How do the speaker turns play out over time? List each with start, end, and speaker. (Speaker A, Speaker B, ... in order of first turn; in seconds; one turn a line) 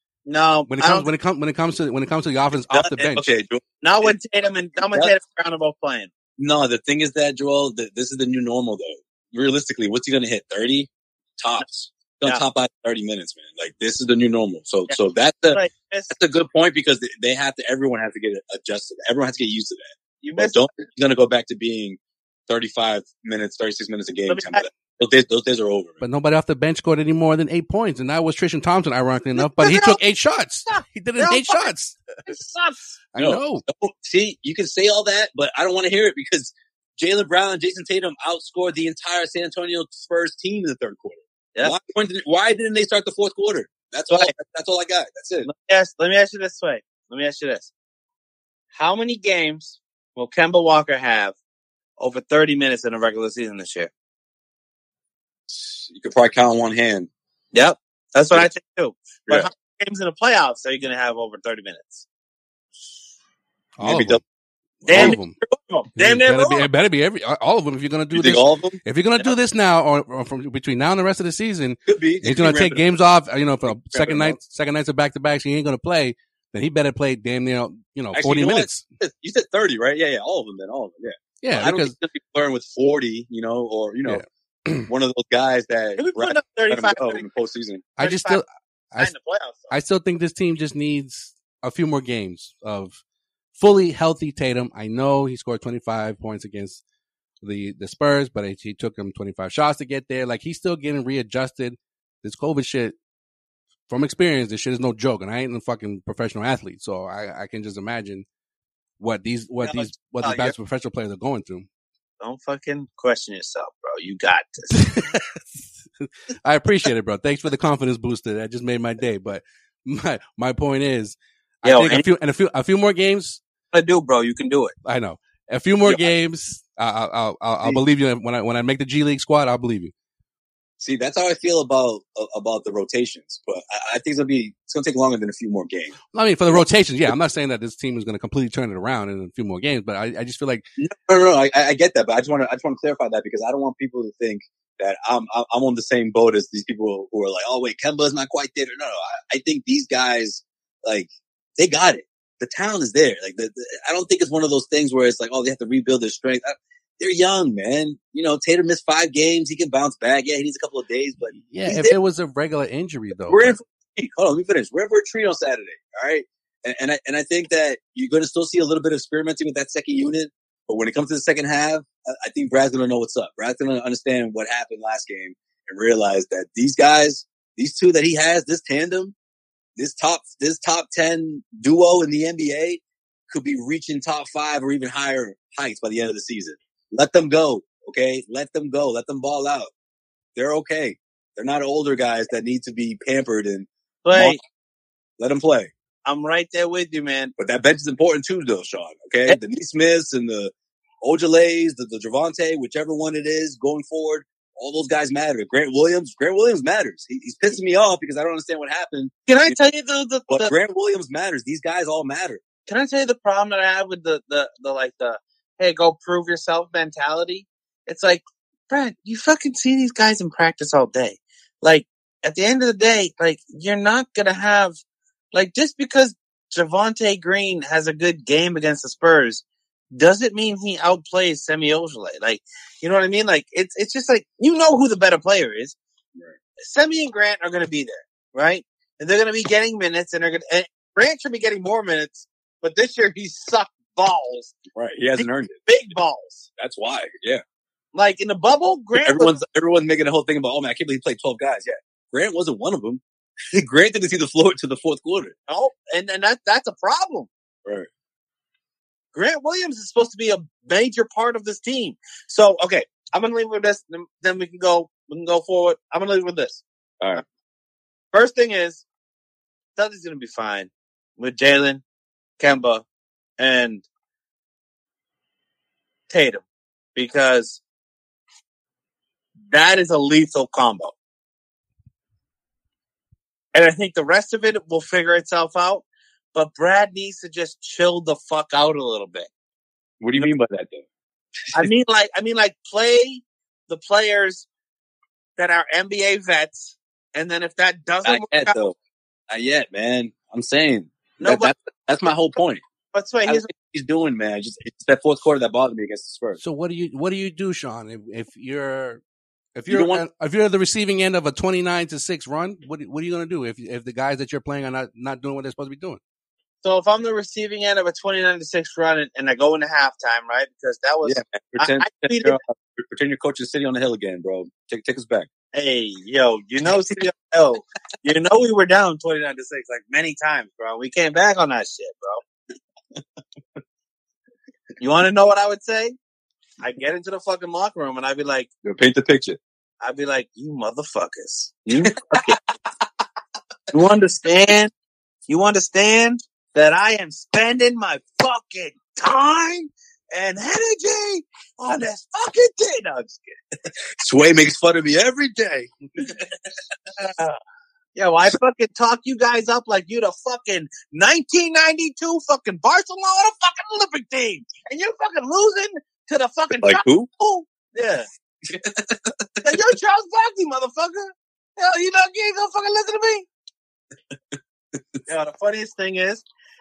Speaker A: 0.3-1.1
Speaker B: 0.7-3.3
Speaker A: 2.7-3.1
Speaker C: 3.1-3.6
Speaker A: 3.8-6.1
Speaker C: 6.4-26.0
Speaker A: 15.5-16.1
Speaker A: 20.2-20.6
Speaker A: 24.3-24.6
Speaker B: 26.0-32.1
Speaker A: 29.4-30.0
Speaker A: 30.7-31.7
Speaker A: 32.3-33.0
Speaker B: 33.1-33.6
Speaker C: 33.2-45.5
Speaker A: 45.4-47.7
Speaker A: 48.7-51.4
Speaker A: 52.0-53.9
Speaker C: 55.5-57.1
Speaker A: 57.5-62.0
Speaker B: 63.8-64.2
Speaker C: 63.8-64.2
Speaker B: 64.8-65.4
Speaker A: 64.9-66.7
Speaker B: 66.0-78.8
Speaker C: 68.1-68.8
Speaker C: 71.9-72.9
Speaker C: 73.7-74.4
Speaker C: 78.1-84.2
Speaker B: 81.4-81.9
Speaker B: 84.0-84.9
Speaker C: 84.9-87.9
Speaker A: 86.0-87.3
Speaker B: 88.0-89.1
Speaker A: 88.0-88.4
Speaker A: 88.9-89.7
Speaker B: 89.7-93.0
Speaker B: 93.6-96.8
Speaker B: 97.4-102.9
Speaker B: 103.9-108.2
Speaker B: 109.0-111.7
Speaker A: 109.6-110.5
Speaker A: 112.2-114.9
Speaker B: 114.7-123.4
Speaker A: 121.6-122.0
Speaker A: 123.7-124.7
Speaker B: 124.8-129.9
Speaker C: 130.8-136.0
Speaker B: 136.1-140.6
Speaker C: 140.8-161.9
Speaker B: 161.4-163.6
Speaker C: 163.3-179.1
Speaker C: 179.8-189.7
Speaker C: 190.4-194.4
Speaker A: 194.1-194.4
Speaker C: 195.2-195.7
Speaker A: 196.1-197.3
Speaker C: 197.4-209.5
Speaker A: 209.3-210.5
Speaker C: 210.3-212.4
Speaker A: 212.7-224.8
Speaker A: 225.3-229.4
Speaker A: 229.9-235.8
Speaker A: 236.6-244.6
Speaker C: 244.7-245.7
Speaker A: 245.2-246.5
Speaker C: 246.6-247.4
Speaker A: 247.9-249.3
Speaker C: 248.9-253.0
Speaker C: 253.5-255.3
Speaker A: 255.5-257.3
Speaker A: 259.1-266.6
Speaker A: 268.1-268.8
Speaker A: 269.8-271.8
Speaker A: 272.4-272.8
Speaker A: 273.4-273.9
Speaker A: 276.1-276.4
Speaker A: 276.9-277.6
Speaker A: 279.5-280.9
Speaker A: 283.6-289.3
Speaker C: 290.0-290.8
Speaker A: 291.5-294.4
Speaker A: 295.4-298.6
Speaker C: 298.1-298.7
Speaker C: 299.3-302.6
Speaker A: 301.2-301.5
Speaker A: 302.9-303.5
Speaker C: 303.3-306.4
Speaker B: 306.4-309.0
Speaker B: 309.6-316.0
Speaker C: 309.7-310.0
Speaker A: 316.6-322.4
Speaker C: 321.0-325.3
Speaker A: 325.5-332.2
Speaker A: 334.8-335.9
Speaker A: 336.6-338.5
Speaker C: 338.6-339.4
Speaker A: 339.8-342.4
Speaker C: 342.0-342.5
Speaker A: 343.7-344.7
Speaker A: 345.3-353.4
Speaker C: 354.0-356.2
Speaker A: 356.9-357.4
Speaker A: 357.9-368.1
Speaker C: 366.6-367.1
Speaker C: 368.5-369.5
Speaker A: 369.4-373.3
Speaker A: 375.1-376.2